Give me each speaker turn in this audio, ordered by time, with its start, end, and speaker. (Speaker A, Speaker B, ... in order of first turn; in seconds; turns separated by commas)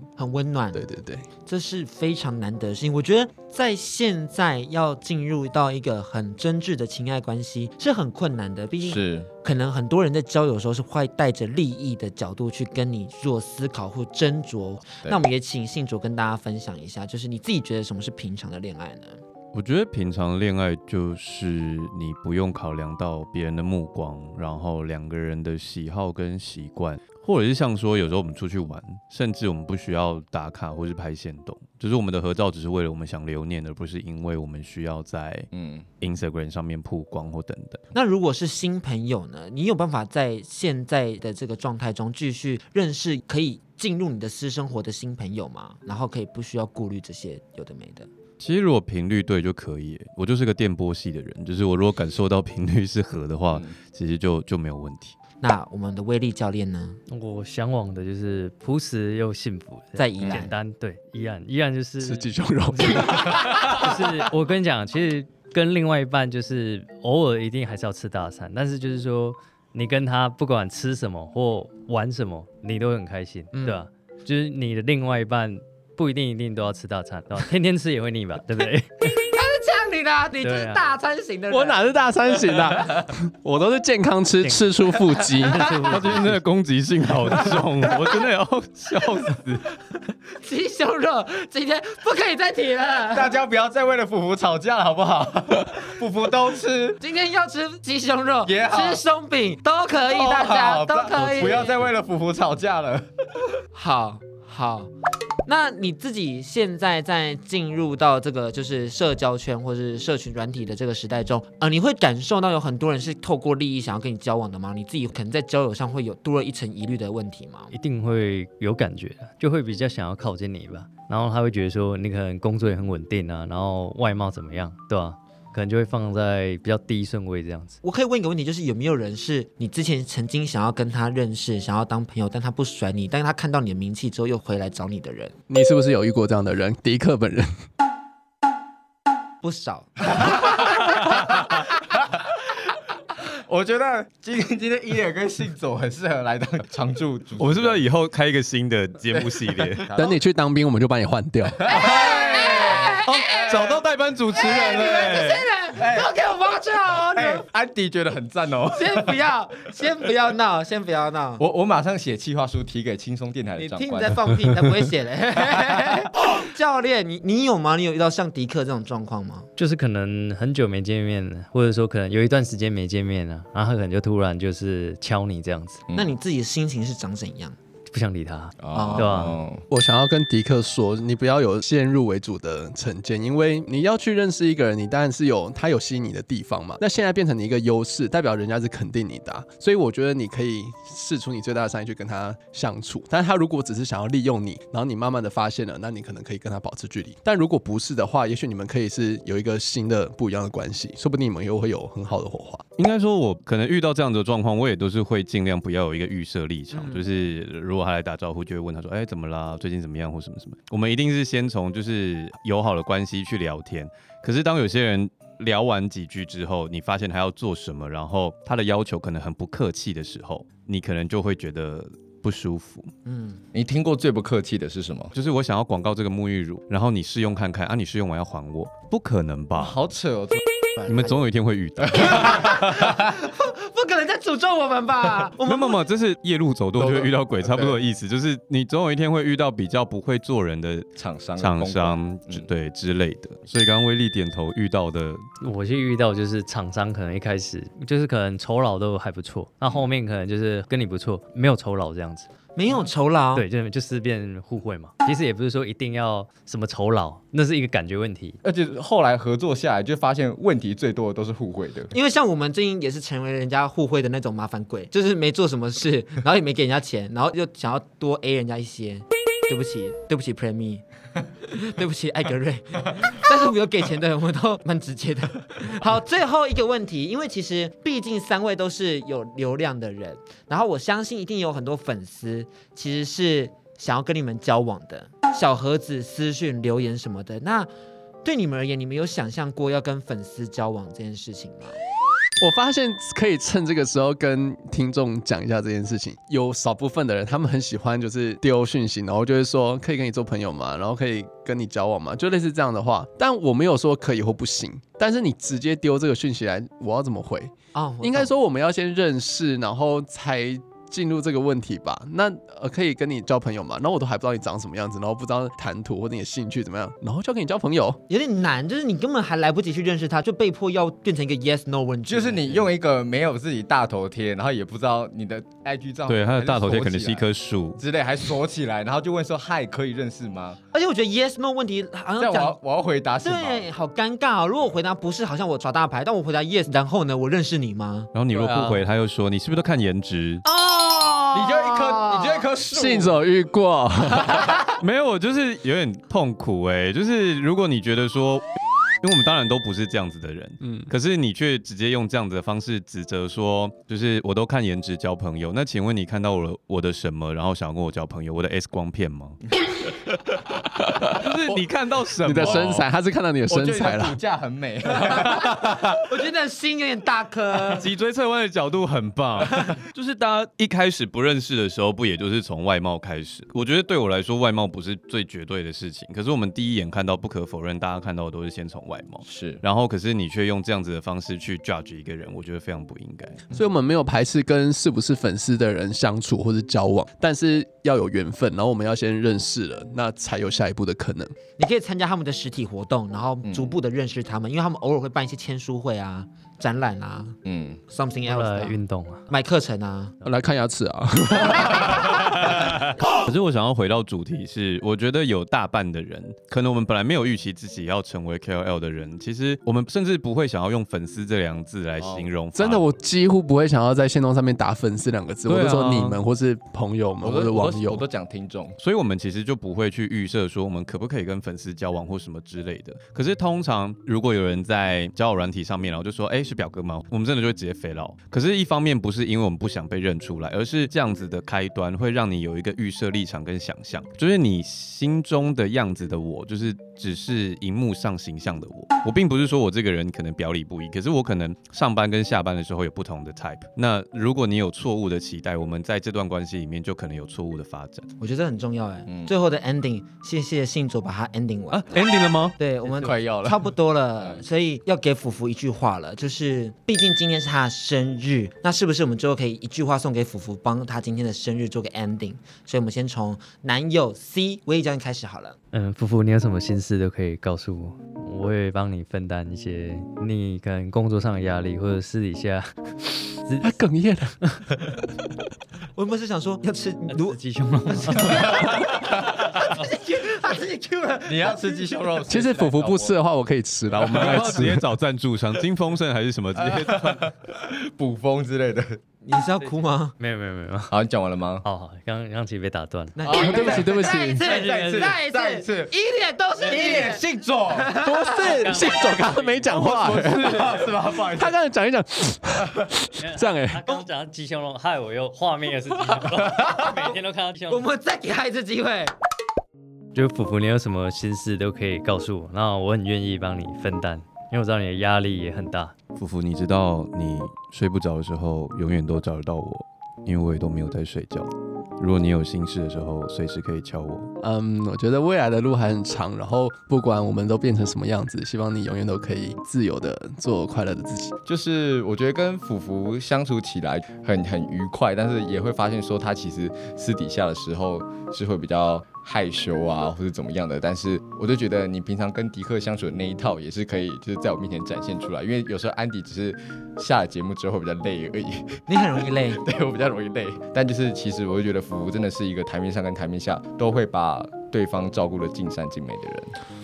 Speaker A: 0.2-0.8, Speaker B: 0.7-1.3, Speaker A: 1.4-19.2, Speaker C: 8.8-9.3, Speaker D: 19.5-35.5, Speaker C: 35.5-35.9, Speaker D: 36.0-37.8, Speaker A: 37.9-48.1, Speaker D: 48.4-55.1, Speaker C: 53.5-53.8, Speaker A: 55.4-57.0, Speaker E: 57.1-79.1, Speaker A: 60.0-60.5, Speaker C: 60.2-60.5, Speaker B: 62.0-63.9, Speaker A: 73.5-73.8, Speaker A: 79.0-81.8, Speaker E: 80.4-81.0, Speaker B: 81.5-85.8, Speaker E: 84.4-86.4, Speaker A: 85.5-86.0, Speaker D: 85.9-89.6, Speaker A: 87.5-88.1, Speaker A: 90.3-93.3, Speaker C: 93.1-97.0, Speaker A: 97.0-101.8, Speaker C: 98.4-99.0, Speaker C: 100.1-103.1, Speaker A: 103.7-104.9, Speaker A: 105.5-117.7, Speaker E: 117.7-127.8, Speaker A: 127.8-135.3, Speaker B: 135.5-137.5, Speaker A: 139.4-141.6, Speaker C: 143.5-147.8, Speaker D: 147.4-149.9, Speaker C: 149.7-150.1, Speaker B: 150.0-151.6, Speaker C: 151.6-153.8, Speaker A: 151.7-153.6, Speaker D: 151.8-152.2, Speaker D: 153.0-155.4, Speaker A: 154.3-157.4, Speaker C: 154.4-156.1, Speaker C: 157.1-159.1, Speaker A: 158.7-161.4, Speaker C: 161.4-164.2, Speaker A: 163.6-169.5, Speaker E: 169.6-175.8, Speaker C: 175.9-176.1, Speaker A: 175.9-177.6, Speaker E: 177.9-179.4, Speaker C: 178.6-179.6, Speaker A: 178.7-179.3, Speaker B: 179.7-202.6, Speaker D: 202.8-222.9, Speaker A: 206.7-207.0, Speaker A: 223.1-223.4, Speaker C: 223.5-225.1, Speaker D: 225.1-229.8, Speaker C: 229.5-230.4, Speaker A: 230.8-231.2, Speaker D: 230.9-232.6, Speaker C: 231.8-232.2, Speaker A: 231.9-235.8, Speaker D: 235.4-245.2, Speaker C: 236.8-237.8, Speaker C: 241.0-242.5, Speaker E: 245.4-252.3, Speaker A: 252.6-253.4, Speaker E: 253.3-258.4, Speaker C: 258.4-261.9, Speaker A: 261.9-270.8, Speaker A: 271.4-287.7, Speaker A: 288.2-291.8, Speaker B: 292.4-318.0, Speaker A: 307.7-308.3, Speaker A: 318.1-322.7, Speaker C: 322.1-327.2, Speaker D: 326.1-327.8, Speaker C: 327.8-330.6, Speaker A: 330.7-332.6, Speaker C: 332.2-333.6, Speaker A: 333.2-338.1, Speaker D: 338.1-340.4, Speaker A: 340.4-342.5, Speaker C: 341.3-343.1, Speaker B: 342.7-344.4, Speaker D: 344.8-348.4, Speaker D: 349.0-359.4, Speaker B: 350.6-350.9, Speaker D: 360.1-360.4, Speaker D: 360.9-362.9, Speaker B: 362.2-364.2, Speaker C: 363.5-365.6, Speaker A: 366.1-367.9, Speaker D: 367.7-383.4, Speaker C: 379.2-379.6, Speaker B: 383.5-391.4, Speaker A: 391.6-400.1, Speaker C: 393.4-393.7, Speaker C: 397.4-397.8, Speaker E: 398.2-399.3, Speaker B: 400.2-402.5, Speaker D: 402.1-412.9, Speaker C: 412.0-412.3, Speaker B: 412.6-418.0, Speaker D: 415.5-416.2, Speaker C: 417.2-418.8, Speaker D: 418.8-448.1, Speaker A: 448.2-451.8, Speaker C: 449.1-449.3, Speaker D: 451.7-452.6, Speaker A: 452.6-465.6, Speaker C: 452.9-453.6, Speaker E: 465.7-472.7, Speaker E: 473.3-473.8, Speaker B: 473.6-475.1, Speaker A: 475.9-477.4, Speaker E: 477.1-478.6, Speaker A: 477.9-482.1, Speaker C: 481.2-483.1, Speaker B: 482.3-484.9, Speaker D: 484.0-487.3, Speaker C: 486.6-489.0, Speaker A: 489.2-490.1, Speaker E: 490.2-490.9, Speaker C: 490.9-491.6, Speaker E: 491.6-493.2, Speaker A: 493.1-498.6, Speaker C: 493.2-495.9, Speaker B: 493.3-494.4, Speaker E: 496.6-497.1, Speaker C: 496.6-498.0, Speaker B: 498.0-500.8, Speaker E: 498.4-499.7, Speaker C: 499.8-501.5, Speaker B: 501.3-503.8, Speaker E: 503.2-507.9, Speaker A: 506.7-507.1, Speaker A: 507.7-509.1, Speaker E: 510.1-515.9, Speaker D: 516.1-524.3, Speaker B: 524.4-531.3, Speaker C: 531.5-548.9, Speaker A: 548.9-549.6, Speaker C: 549.5-556.5